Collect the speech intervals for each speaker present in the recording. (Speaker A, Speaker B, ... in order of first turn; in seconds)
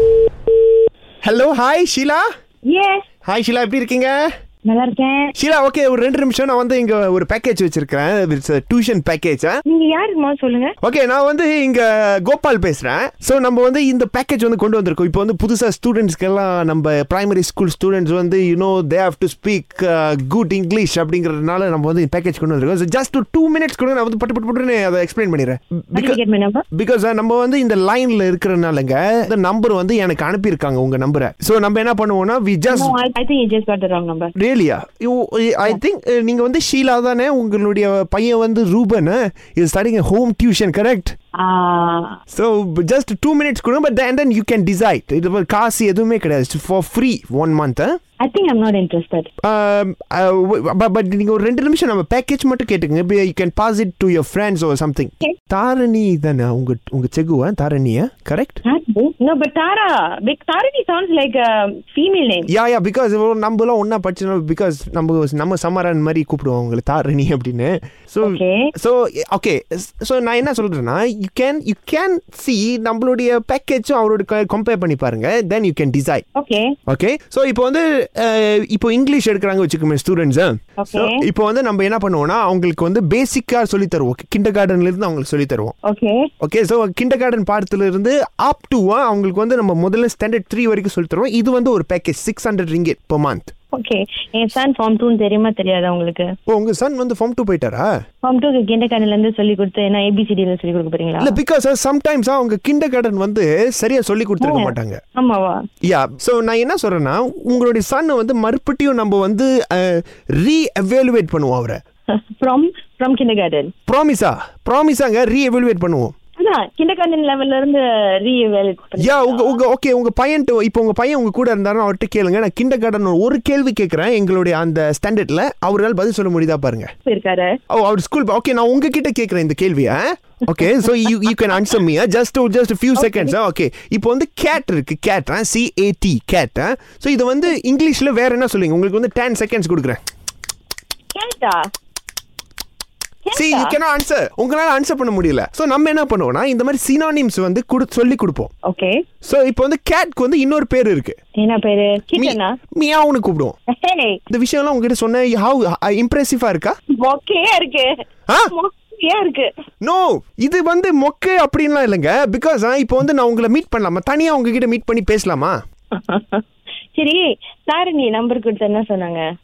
Speaker A: 1.2-2.2, 3.2-4.2, 5.4-9.6, 10.8-26.2, 26.7-33.0, 34.4-41.1, 42.3-48.0, 49.4-58.6, 62.5-76.2, 76.9-85.7, 86.4-93.5, 96.5-97.9, 101.2-105.0, 105.8-111.8, 113.9-116.1, 119.0-126.9, 127.7-140.0, 143.3-148.5, 149.2-151.2, 152.2-153.6, 154.3-156.8, 159.8-165.6
Speaker B: 2.7-3.1, 4.7-5.3, 9.7-10.7, 25.9-26.6, 32.7-34.3, 41.4-42.2, 48.2-49.3, 58.7-62.5, 68.2-68.7, 76.4-76.8, 80.8-81.2, 85.9-86.3, 93.7-96.3, 98.2-101.4, 104.4-105.6, 112.2-113.7, 116.4-119.6, 127.0-127.5, 133.0-133.3, 141.2-141.7, 143.3-143.8, 148.7-149.0, 151.4-152.6, 153.7-154.2, 157.0-157.9, 158.5-159.5, 165.9-166.4, 167.0-169.2